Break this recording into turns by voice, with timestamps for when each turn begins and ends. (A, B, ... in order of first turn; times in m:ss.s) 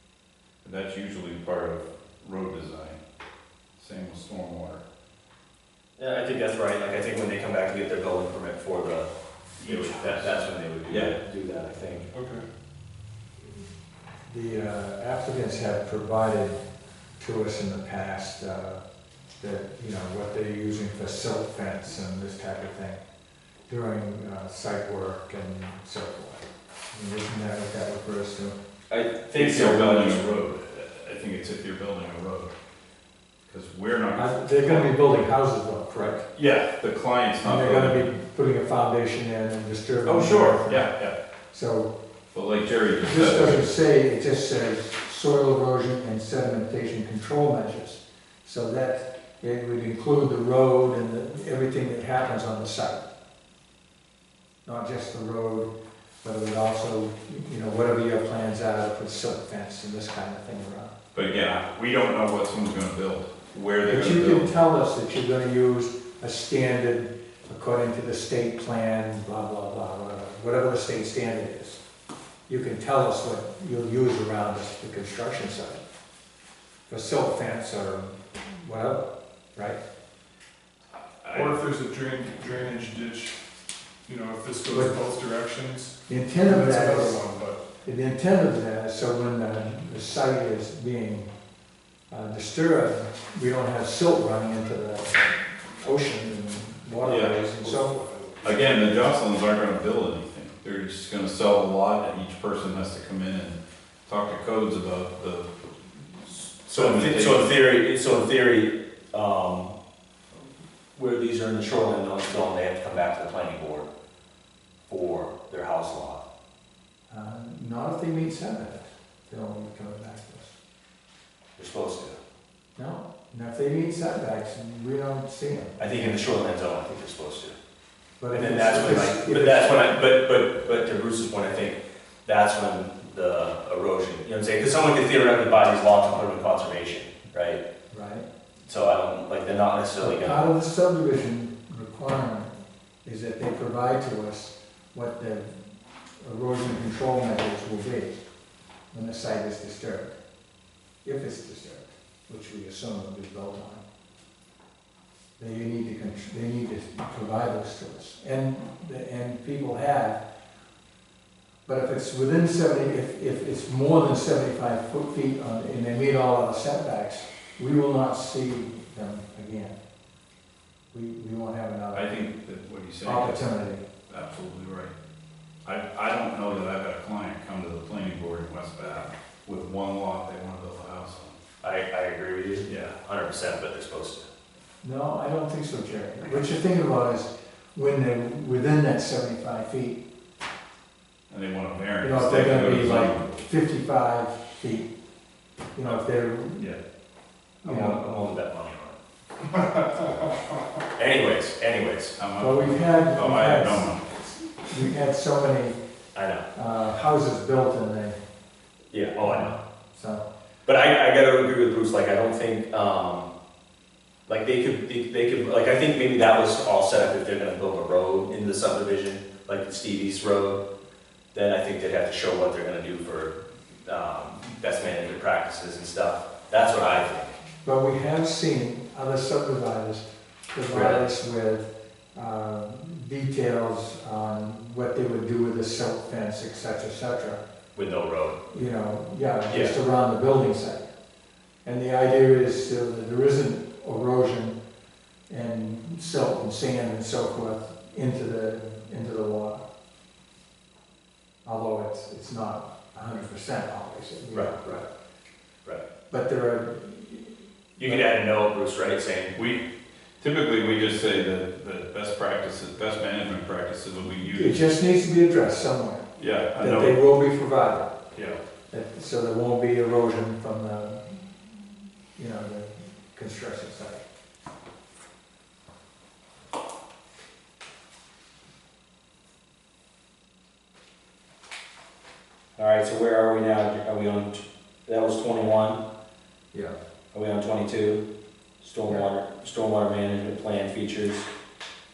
0:00.6-0:03.0 A
0:03.8-0:04.8 A
0:06.0-0:12.1 B
0:09.7-0:11.1 A
0:12.1-0:12.4 C
0:14.3-0:16.6 D
0:17.2-0:18.8 D
0:19.4-0:23.0 D
0:23.7-0:28.5 D
0:28.9-0:30.4 B
0:29.3-0:32.5 A
0:33.4-0:34.9 A
0:34.2-0:36.2 D
0:36.0-0:38.0 A
0:37.4-0:40.9 D
0:40.0-0:41.1 A
0:41.5-0:41.9 D
0:42.3-0:43.7 A
0:43.0-0:53.0 D
0:54.6-0:55.7 D
0:56.2-1:00.9 D
1:01.1-1:04.5 A
1:03.9-1:11.8 D
1:12.5-1:15.8 D
1:16.9-1:19.8 D
1:21.3-1:23.4 C
1:24.0-1:27.6 C
1:26.1-1:27.2 D
1:27.8-1:31.3 D
1:32.1-1:38.0 D
1:37.0-1:37.3 A
1:37.8-1:38.2 C
1:38.4-1:45.5 A
1:46.2-1:47.5 A
1:46.7-1:49.7 B
1:50.9-1:53.9 B
1:54.9-1:56.2 B
1:57.1-2:00.6 D
2:01.6-2:02.2 B
2:02.8-2:06.2 D
2:05.8-2:07.5 B
2:08.2-2:09.9 D
2:08.3-2:17.6 B
2:17.9-2:18.2 D
2:18.7-2:20.5 B
2:20.0-2:22.5 D
2:23.0-2:25.6 D
2:26.2-2:28.1 D
2:28.9-2:30.2 D
2:31.0-2:33.8 D
2:35.4-2:40.2 D
2:41.6-2:49.7 D
2:50.9-2:52.1 D
2:51.9-2:53.4 A
2:53.0-2:53.8 D
2:54.1-2:54.9 A
2:55.6-3:01.4 A
3:01.6-3:04.2 B
3:04.8-3:10.0 D
3:11.3-3:13.3 A
3:12.0-3:14.9 D
3:15.7-3:16.7 D
3:17.6-3:19.0 B
3:17.6-3:18.0 D
3:19.5-3:20.2 B
3:20.9-3:22.2 B
3:22.2-3:24.0 A
3:22.4-3:25.8 D
3:26.1-3:26.4 B
3:26.5-3:28.2 D
3:28.9-3:29.6 B
3:29.9-3:30.2 D
3:30.6-3:33.3 B
3:34.2-3:40.6 B
3:41.3-3:43.3 B
3:43.8-3:47.3 B
3:47.6-3:57.4 D
3:50.7-3:51.0 B
3:57.7-3:58.4 B
3:58.5-4:00.9 D
3:59.5-3:59.7 B
4:01.6-4:04.6 D
4:05.3-4:09.6 D
4:11.4-4:14.9 D
4:16.1-4:17.4 D
4:17.8-4:19.4 B
4:19.3-4:19.6 A
4:20.2-4:24.6 A
4:24.3-4:28.0 D
4:26.2-4:27.0 A
4:28.7-4:31.4 D
4:32.2-4:34.0 D
4:42.6-4:45.8 B
4:47.1-4:48.0 B
4:48.6-4:51.3 B